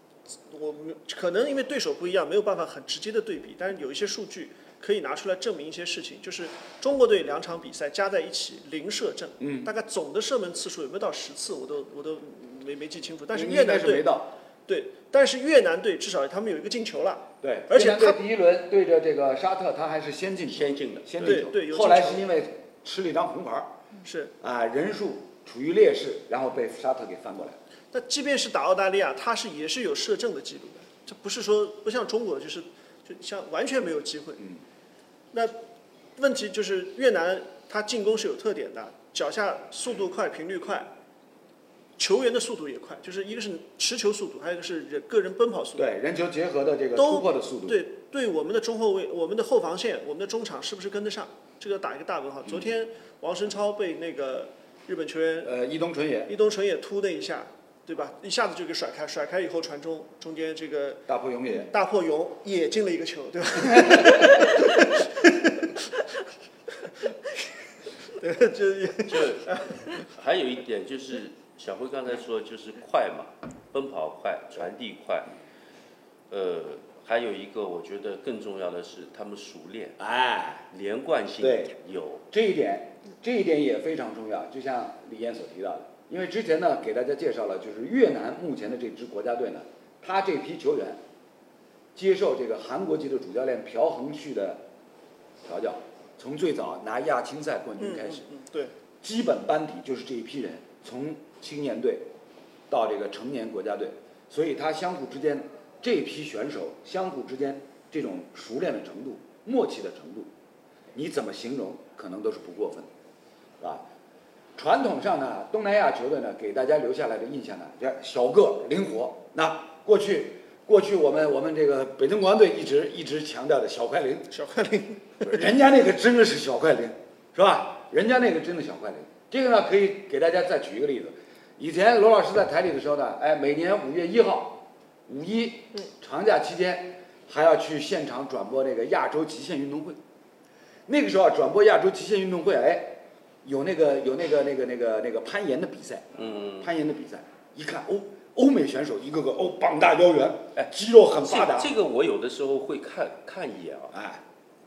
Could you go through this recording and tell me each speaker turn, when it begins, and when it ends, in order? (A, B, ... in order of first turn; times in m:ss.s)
0:00.3-0:14.1 A
0:09.4-0:09.7 B
0:13.3-0:14.3 B
0:14.7-0:18.2 A
0:17.4-0:23.7 B
0:20.5-0:21.4 C
0:21.2-0:22.3 A
0:24.0-0:24.3 A
0:24.4-0:27.6 B
0:27.9-0:34.4 A
0:35.3-0:35.6 A
0:36.2-0:40.9 A
0:42.0-0:45.9 A
0:45.8-0:47.8 B
0:47.0-0:55.5 A
0:55.4-0:56.3 B
0:56.3-1:06.0 A
1:01.1-1:01.7 B
1:03.6-1:04.3 B
1:06.8-1:07.1 A
1:08.1-1:10.0 A
1:09.0-1:15.3 C
1:16.3-1:20.0 C
1:20.0-1:20.6 B
1:20.7-1:22.2 C
1:21.4-1:21.7 B
1:22.3-1:31.0 B
1:32.0-1:34.6 B
1:35.4-1:38.2 B
1:37.8-1:38.7 A
1:39.0-1:42.1 B
1:42.7-1:50.3 B
1:51.0-1:52.9 B
1:53.6-1:53.8 B
1:54.6-2:04.3 B
2:04.3-2:05.4 A
2:05.2-2:20.0 B
2:20.9-2:31.7 B
2:26.2-2:26.7 C
2:30.6-2:33.9 C
2:33.9-2:34.2 B